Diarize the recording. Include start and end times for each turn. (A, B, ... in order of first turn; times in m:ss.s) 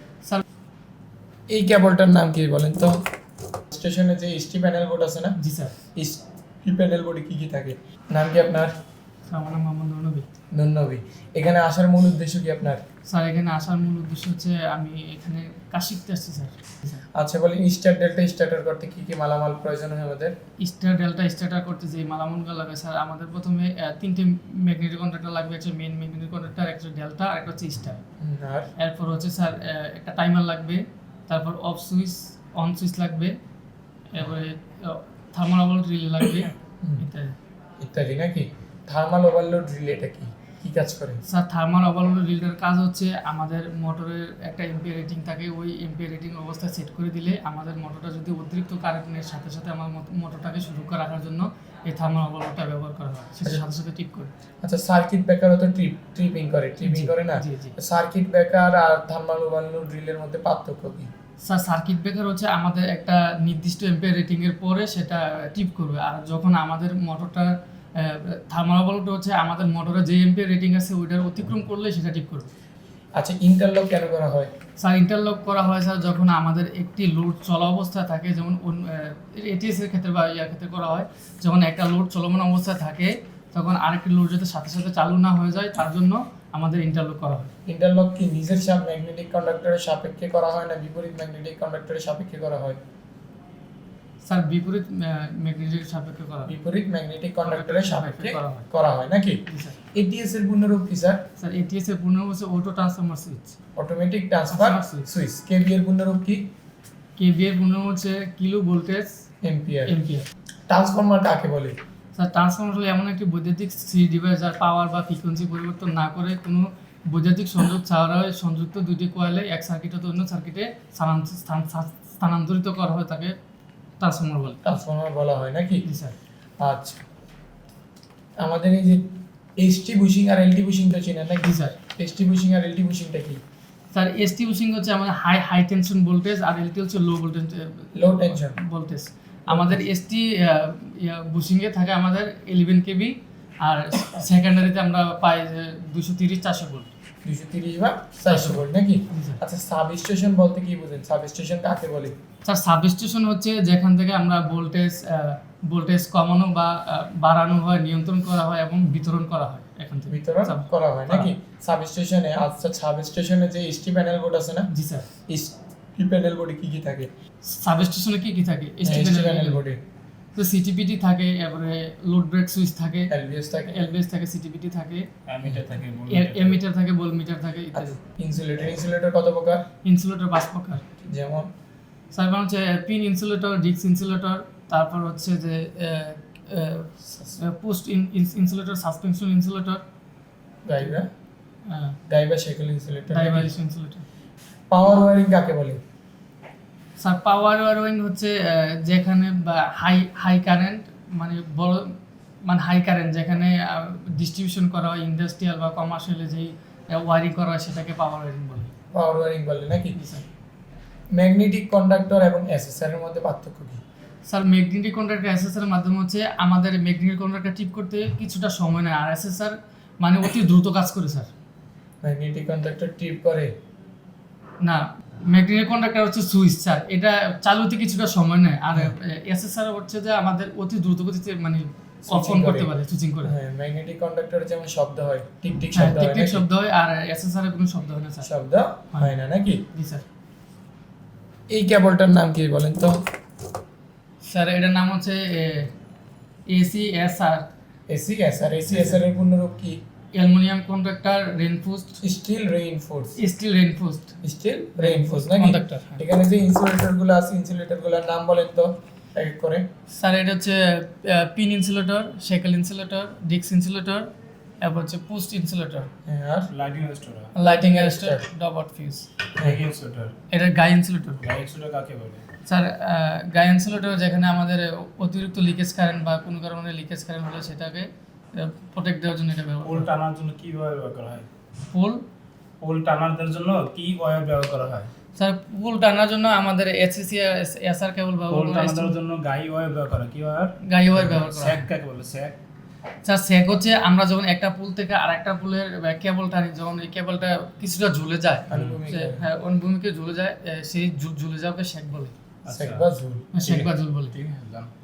0:01.5-0:03.0 A
0:03.7-0:05.4 A
0:05.4-0:05.7 B
0:06.0-0:08.7 A
0:09.3-0:10.2 B
0:10.5-0:12.8 A
0:13.0-0:17.0 B
0:17.1-0:20.3 A
0:20.6-0:28.0 B
0:28.2-0:28.7 A
0:28.8-0:33.3 B
0:34.1-0:37.4 B
0:37.8-0:41.2 A
0:41.3-0:54.3 B
0:54.6-1:01.1 A
0:56.8-0:57.7 B
1:01.4-1:12.5 B
1:13.2-1:14.5 A
1:14.8-1:27.5 B
1:27.6-1:32.8 A
1:34.2-1:36.5 B
1:36.4-1:39.4 A
1:37.5-1:38.7 B
1:39.5-1:39.8 B
1:39.9-1:41.2 A
1:41.4-1:43.6 B
1:43.8-1:46.5 A
1:44.5-1:45.1 B
1:47.2-1:49.2 B
1:49.4-1:49.9 A
1:49.9-1:50.3 B
1:50.7-1:51.8 A
1:52.2-2:03.4 B
2:04.0-2:04.6 B
2:04.6-2:05.8 A
2:05.8-2:06.1 B
2:06.6-2:07.0 A
2:08.4-2:13.4 A
2:11.4-2:11.8 B
2:13.9-2:26.9 B
2:17.9-2:18.6 A
2:19.5-2:19.8 A
2:27.2-2:32.2 A
2:28.3-2:29.4 B
2:32.4-2:41.3 B
2:40.1-2:44.7 A
2:44.7-2:45.1 B
2:45.2-2:47.1 A
2:47.4-2:49.6 B
2:48.8-2:49.8 A
2:50.3-2:53.1 B
2:53.1-2:53.8 A
2:53.6-2:55.1 B
2:55.3-2:56.6 C
2:56.1-2:58.0 B
2:57.7-2:59.6 A
2:59.8-3:00.8 B
3:01.0-3:01.5 A
3:02.1-3:09.8 B
3:10.6-3:11.1 A
3:11.7-3:12.0 B
3:12.1-3:13.5 A
3:13.1-3:14.0 B
3:14.7-3:15.8 A
3:17.0-3:28.7 B
3:28.9-3:30.0 A
3:30.0-3:30.2 B
3:31.1-3:33.8 A
3:34.2-3:41.3 B
3:42.0-3:43.5 A
3:44.6-3:53.3 B
3:52.0-3:52.7 A
3:53.2-3:56.4 A
3:55.7-3:58.3 B
3:58.2-3:59.6 A
3:59.7-4:00.0 B
4:01.5-4:03.0 A
4:04.2-4:05.7 B
4:06.5-4:07.5 B
4:07.9-4:09.8 A
4:08.7-4:09.0 B
4:10.1-4:12.0 B
4:12.0-4:13.2 A
4:13.2-4:14.2 B
4:14.2-4:19.7 A
4:14.8-4:16.0 B
4:19.9-4:25.9 B
4:26.0-4:26.5 A
4:26.5-4:27.3 C
4:27.3-4:29.1 B
4:27.4-4:28.2 A
4:29.4-4:30.1 C
4:30.3-4:31.2 B
4:31.2-4:32.2 C
4:32.4-4:39.9 B
4:39.6-4:41.3 C
4:41.7-4:42.0 B
4:42.6-4:44.9 C
4:45.2-4:48.9 B
4:48.3-4:52.4 C
4:50.6-4:51.7 B
4:53.0-5:02.1 B
4:58.5-4:59.2 A
4:58.5-4:58.8 C
5:02.4-5:02.9 C
5:02.5-5:03.3 A
5:03.3-5:04.2 B
5:03.4-5:04.7 C